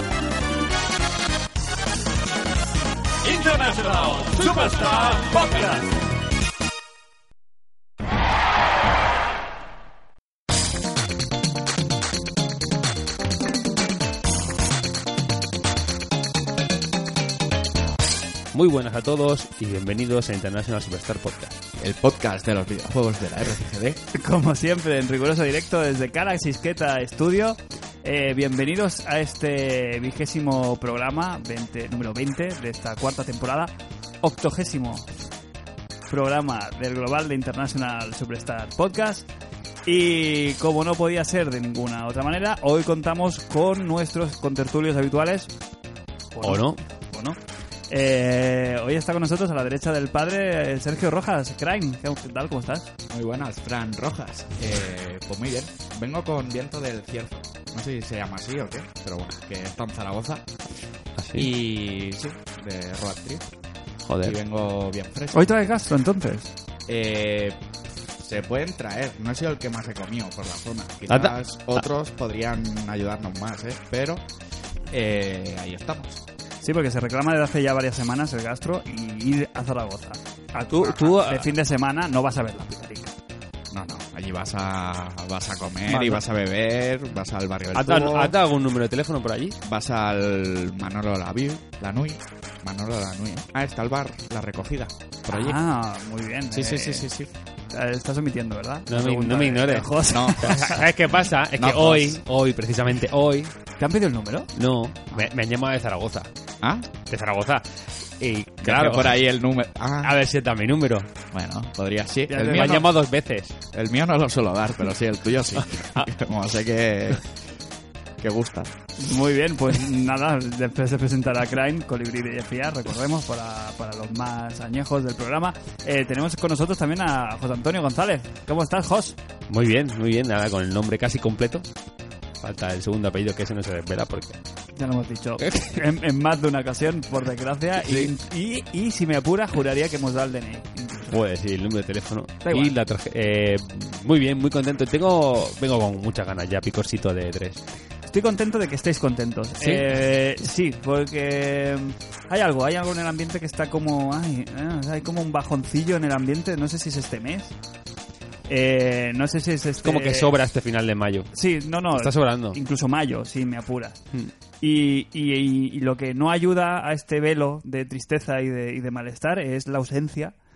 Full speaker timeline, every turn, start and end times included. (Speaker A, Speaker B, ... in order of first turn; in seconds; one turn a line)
Speaker A: 3.2-5.9
Speaker B: 18.5-21.6
Speaker C: 21.8-24.0
Speaker A: 24.1-35.1
Speaker A: 36.1-39.3
Speaker A: 39.9-45.5
Speaker A: 46.3-52.9
Speaker B: 46.4-46.8
Speaker C: 53.0-60.5
Speaker B: 61.1-61.5
Speaker C: 61.3-63.5
Speaker B: 64.1-64.4
Speaker C: 64.2-65.6
Speaker A: 65.3-66.5
Speaker C: 66.9-67.6
Speaker C: 68.1-74.2
Speaker B: 71.1-71.3
Speaker C: 74.9-76.2
Speaker A: 76.6-83.1
Speaker B: 80.7-81.5
Speaker C: 83.7-88.3
Speaker A: 85.9-86.2
Speaker B: 87.7-89.6
Speaker C: 89.6-95.6
Speaker A: 95.3-97.1
Speaker C: 96.5-97.3
Speaker A: 97.7-100.9
Speaker B: 98.9-103.5
Speaker C: 100.1-100.8
Speaker C: 101.6-102.2
Speaker A: 103.8-104.5
Speaker B: 104.5-106.3
Speaker C: 106.6-106.9
Speaker B: 107.0-109.2
Speaker C: 108.6-110.1
Speaker B: 110.0-111.1
Speaker C: 111.3-112.8
Speaker A: 112.3-112.9
Speaker B: 112.3-113.6
Speaker C: 113.7-117.3
Speaker C: 118.2-118.8
Speaker A: 119.0-129.2
Speaker B: 129.5-131.7
Speaker B: 132.4-134.4
Speaker A: 134.7-141.2
Speaker B: 135.4-135.7
Speaker B: 141.1-147.6
Speaker A: 142.4-142.8
Speaker A: 148.1-157.5
Speaker B: 149.6-149.8
Speaker A: 158.5-160.3
Speaker B: 159.8-161.3
Speaker A: 161.3-164.1
Speaker B: 161.9-162.6
Speaker A: 164.6-170.3